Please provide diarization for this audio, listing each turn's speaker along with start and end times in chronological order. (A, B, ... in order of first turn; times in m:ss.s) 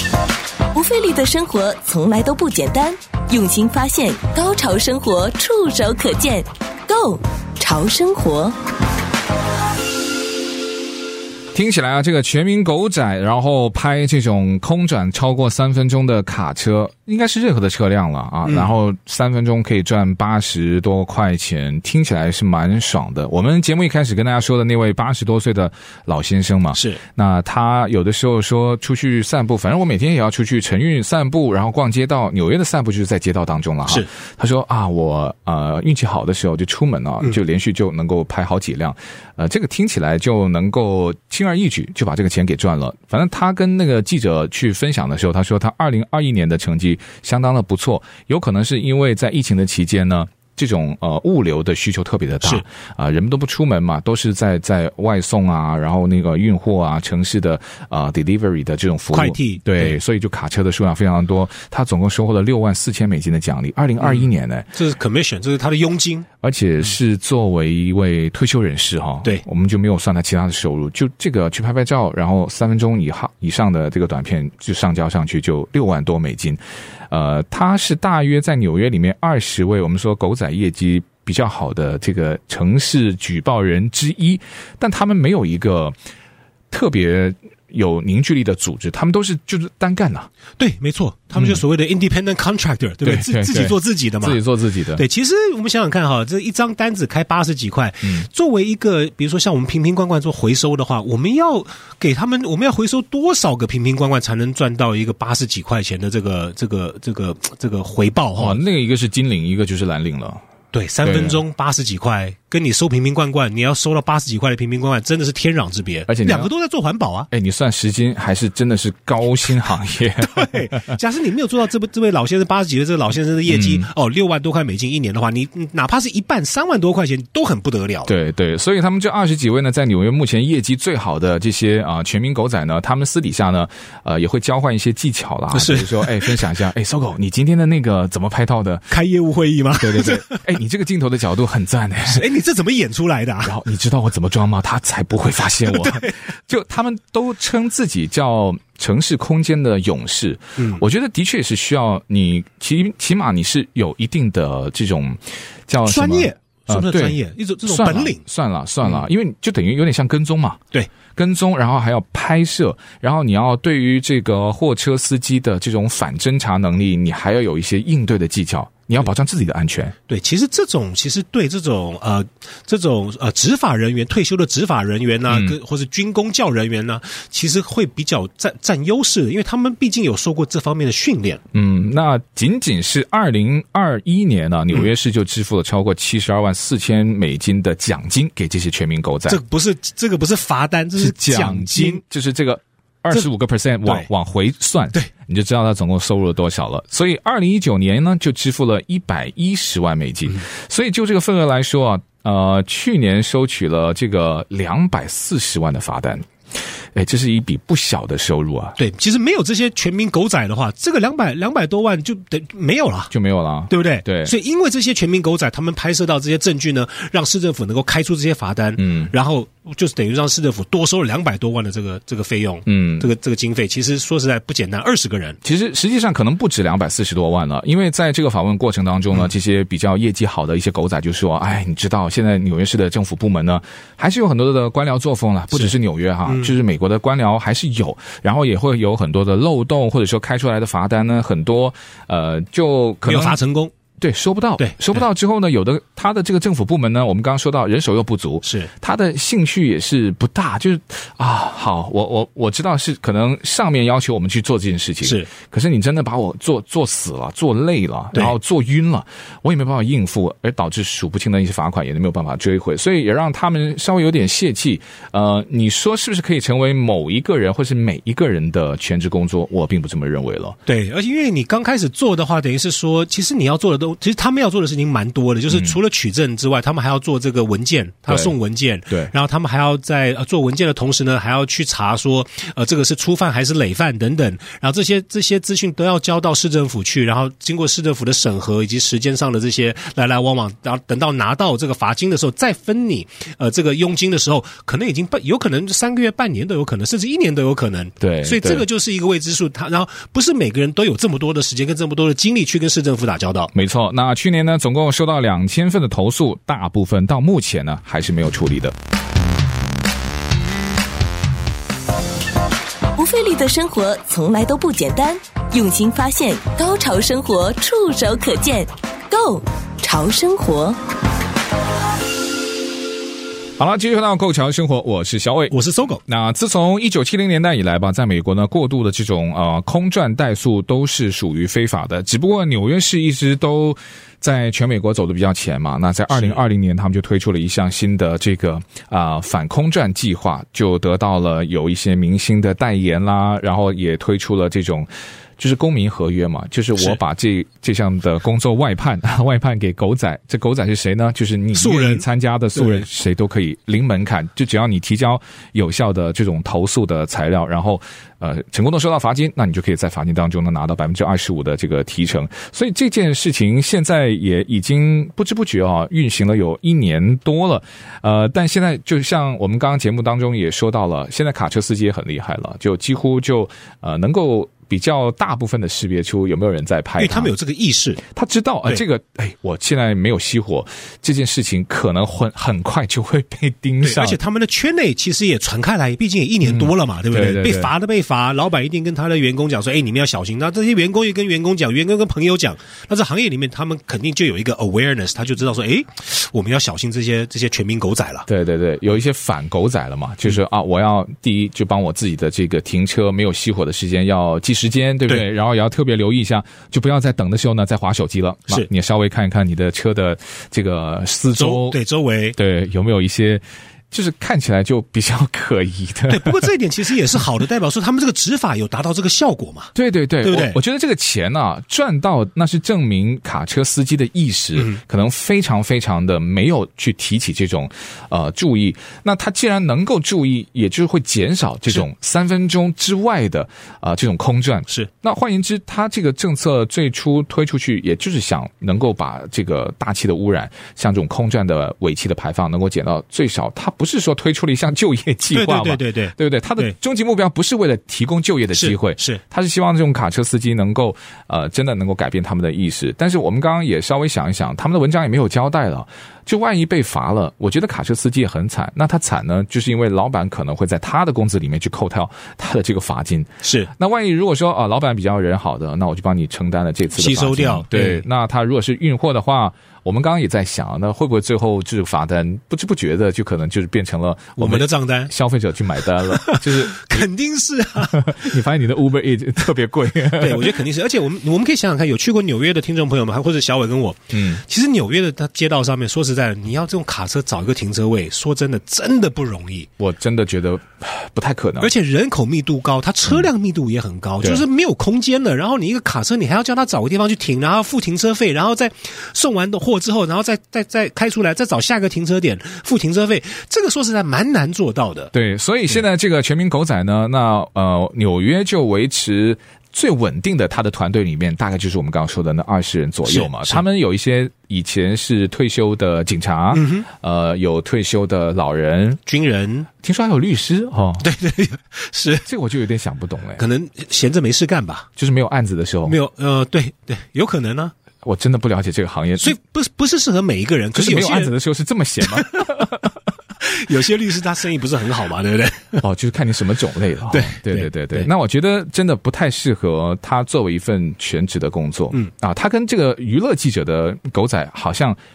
0:00.7-0:08.6 A
0:11.5-1:04.7 B
0:18.4-0:18.7 C
0:26.7-0:27.0 C
0:59.1-1:00.0 C
1:04.0-1:06.3 C
1:06.4-1:26.0 B
1:26.7-1:30.3 B
1:30.6-1:34.4 C
1:31.4-1:31.6 B
1:33.0-1:35.0 B
1:35.0-1:48.6 C
1:38.0-1:38.3 B
1:48.4-1:50.4 B
1:50.7-1:57.3 C
1:51.0-1:51.4 B
1:56.1-1:56.5 B
1:57.3-2:00.9 B
2:00.2-2:08.1 C
2:03.5-2:03.9 B
2:08.1-2:18.9 B
2:15.5-2:16.4 C
2:18.9-2:20.4 C
2:19.8-2:22.2 B
2:22.0-2:23.6 C
2:23.4-2:49.9 B
2:25.7-2:26.1 C
2:30.6-2:30.8 C
2:35.8-2:38.2 C
2:50.1-3:01.4 C
2:55.3-2:55.6 B
3:01.5-3:09.4 B
3:09.3-3:12.0 C
3:11.0-3:26.3 B
3:26.9-3:28.8 B
3:28.8-3:33.1 C
3:33.1-3:34.3 B
3:33.7-3:45.4 C
3:38.8-3:39.1 B
3:42.7-3:43.1 B
3:45.4-4:03.4 B
3:56.2-3:56.5 C
4:03.0-4:03.7 C
4:04.0-4:30.6 B
4:04.6-4:05.0 C
4:08.4-4:08.7 C
4:15.0-4:15.3 C
4:30.6-5:03.5 C
4:35.5-4:35.8 B
4:38.1-4:38.3 B
4:58.0-4:58.6 B
5:03.5-5:08.8 B
5:13.0-5:20.8 A
5:23.6-6:17.3 B
5:25.5-5:26.0 C
5:51.5-5:52.0 C
5:52.6-5:52.8 C
6:17.0-6:18.0 C
6:18.0-6:24.2 B
6:23.8-6:38.3 C
6:26.4-6:27.7 B
6:38.3-6:51.8 B
6:51.4-6:52.4 C
6:52.4-6:56.5 B
6:56.1-6:59.7 C
6:59.7-7:57.1 B
7:00.2-7:00.6 C
7:25.3-7:26.7 C
7:28.5-7:29.2 C
7:43.4-7:43.7 C
7:47.0-7:48.0 C
7:54.4-7:55.1 C
7:56.1-7:58.1 C
7:57.9-8:00.6 B
8:00.2-8:09.7 C
8:04.1-8:04.4 B
8:09.8-8:11.7 B
8:11.6-8:25.1 C
8:25.1-8:39.0 B
8:33.0-8:33.6 C
8:36.5-8:36.8 C
8:39.0-8:39.7 C
8:39.8-8:41.1 B
8:41.0-8:42.2 C
8:42.2-8:43.4 B
8:43.4-8:44.9 C
8:45.0-8:46.0 B
8:45.8-8:47.7 C
8:48.0-8:49.4 B
8:49.2-8:51.3 C
8:50.7-8:53.0 B
8:52.0-8:52.4 C
8:53.4-8:55.8 C
8:55.8-9:05.0 B
8:57.1-8:58.1 C